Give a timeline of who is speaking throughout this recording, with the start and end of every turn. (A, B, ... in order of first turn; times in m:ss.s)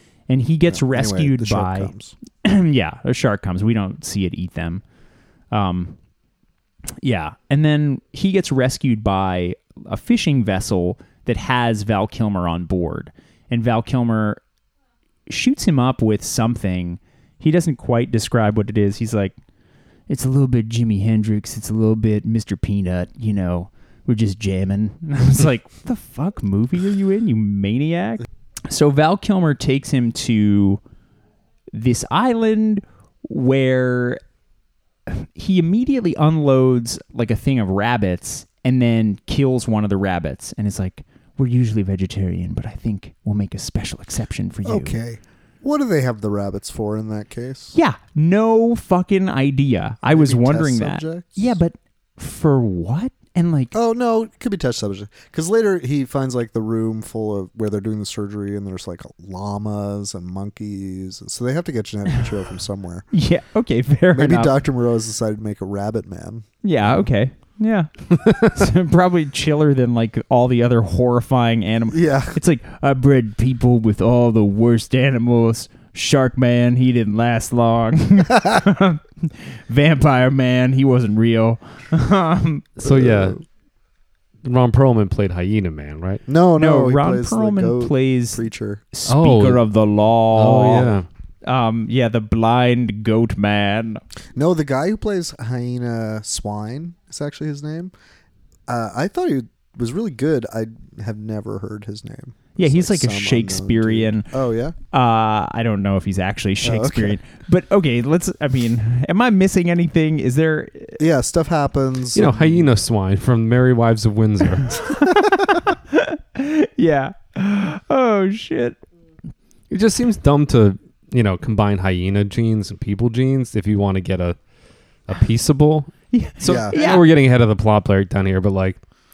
0:00.3-0:01.9 A
0:00.7-0:02.1 B
0:02.4-0:04.8 A
0:05.5-0:06.0 A
0:07.0-0:14.4 A
0:15.3-0:19.3 A
0:20.1-0:30.8 A
0:31.7-0:34.2 A
0:35.1-0:45.0 A
0:44.6-0:47.7 B
0:47.7-0:53.7 A
0:50.0-0:51.6 B
0:53.7-1:03.0 B
1:03.1-1:04.6 A
1:04.1-1:06.4 B
1:06.6-1:22.7 A
1:11.9-1:12.4 B
1:22.8-1:23.4 C
1:22.8-1:23.4 B
1:24.4-1:26.2 C
1:26.2-1:28.8 B
1:26.6-1:34.0 A
1:29.0-1:29.6 C
1:30.3-1:31.0 C
1:34.3-1:37.9 B
1:38.7-1:44.8 B
1:42.6-1:44.3 A
1:44.9-1:51.0 A
1:46.6-1:47.2 B
1:51.0-1:52.7 B
1:52.1-1:54.8 C
1:54.8-1:58.8 A
1:59.7-2:04.4 C
2:05.1-2:08.8 C
2:06.1-2:07.0 A
2:06.4-2:06.9 B